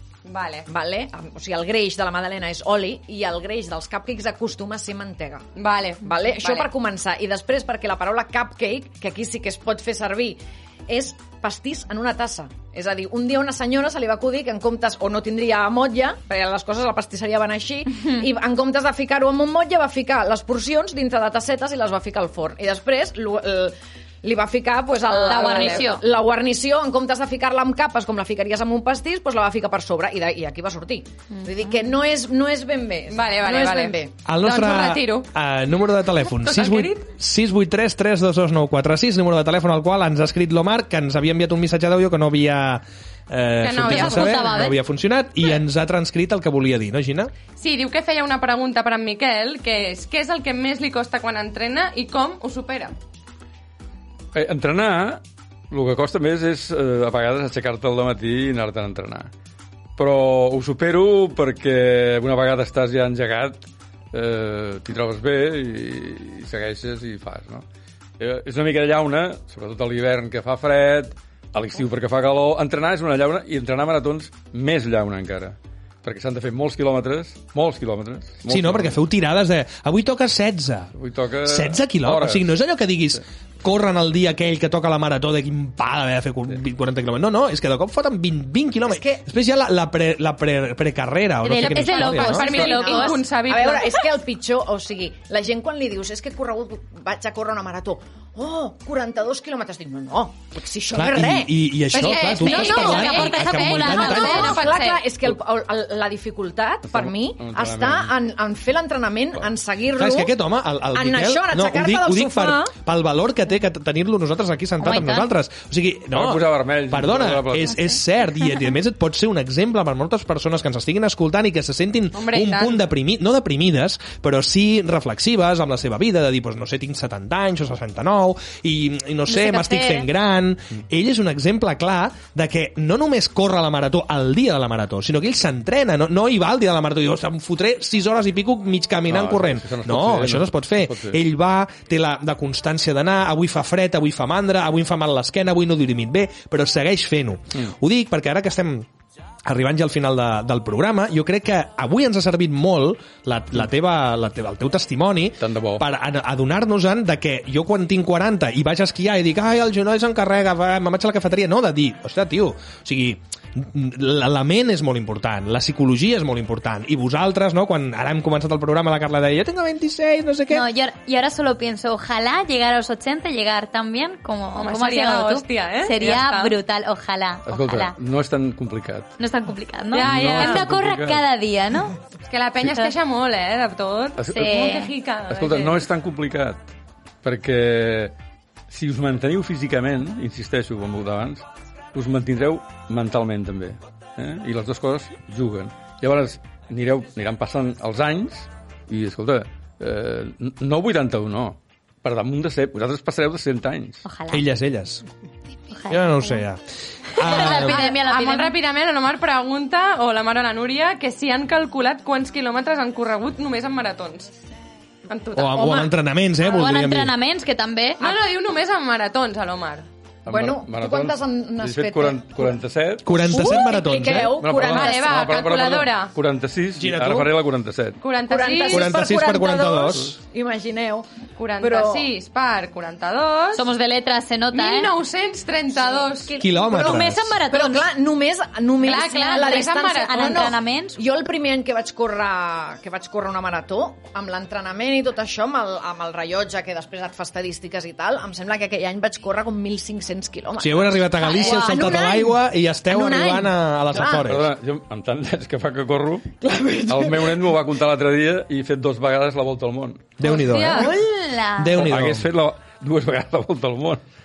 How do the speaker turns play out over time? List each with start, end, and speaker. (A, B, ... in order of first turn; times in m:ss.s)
0:00.3-0:00.7 A
0:00.7-0:05.5 B
0:05.6-0:06.7 A
0:06.0-0:34.1 B
0:25.1-0:25.9 A
0:25.3-0:26.0 C
0:33.1-0:35.3 A
0:34.2-0:47.3 D
0:36.4-0:37.1 A
0:43.6-0:44.7 A
0:43.8-0:44.8 C
0:47.6-0:52.9 A
0:54.3-0:59.3 E
1:00.0-1:07.6 E
1:08.2-1:19.0 E
1:18.5-1:20.9 D
1:21.0-1:22.6 E
1:21.4-1:32.6 D
1:28.9-1:29.2 B
1:31.4-1:33.2 C
1:31.5-1:34.0 A
1:32.4-1:41.7 B
1:40.9-1:44.7 D
1:41.9-1:45.1 A
1:42.0-1:44.6 C
1:44.1-1:50.4 B
1:46.9-1:48.1 E
1:50.0-2:28.9 D
1:50.9-1:52.7 B
1:54.8-1:55.3 C
1:56.1-1:57.9 E
2:02.1-2:02.8 A
2:09.3-2:10.1 C
2:19.1-2:21.2 E
2:29.5-2:50.6 D
2:35.4-2:35.8 E
2:50.5-2:58.0 C
2:54.6-2:56.6 A
2:57.5-2:59.1 E
2:59.2-3:02.0 C
2:59.9-3:00.7 A
3:00.0-3:01.2 E
3:02.2-3:05.9 A
3:02.6-3:02.9 C
3:04.2-3:04.5 E
3:04.3-3:04.9 C
3:05.3-3:06.6 E
3:07.2-3:08.1 E
3:08.7-3:24.0 E
3:24.0-3:24.4 C
3:24.3-3:25.0 D
3:25.7-3:26.4 C
3:25.9-3:26.6 D
3:27.2-3:27.8 D
3:27.2-3:28.6 C
3:27.3-3:34.3 A
3:35.1-3:35.9 A
3:35.4-3:37.1 D
3:36.4-3:38.1 C
3:38.0-3:39.9 A
3:40.3-3:43.1 E
3:40.3-3:42.5 B
3:43.1-3:44.4 D
3:43.2-3:45.2 B
3:44.4-3:48.0 E
3:44.7-3:46.1 A
3:46.8-3:47.3 D
3:48.0-3:49.0 A
3:48.3-3:51.1 B
3:48.7-3:50.2 D
3:51.4-3:53.6 A
3:51.6-3:52.1 B
3:53.6-3:54.9 C
3:54.5-3:56.4 A
3:55.8-4:14.3 B
3:56.4-3:57.4 D
3:56.7-3:57.9 C
3:58.8-4:00.5 A
3:58.8-4:01.0 C
4:10.6-4:14.5 D
4:11.2-4:12.1 C
4:14.1-4:20.1 E
4:16.4-4:17.5 B
4:20.2-4:20.9 D
4:20.4-4:20.9 A
4:20.4-4:21.9 C
4:21.6-4:22.3 D
4:21.8-4:24.0 E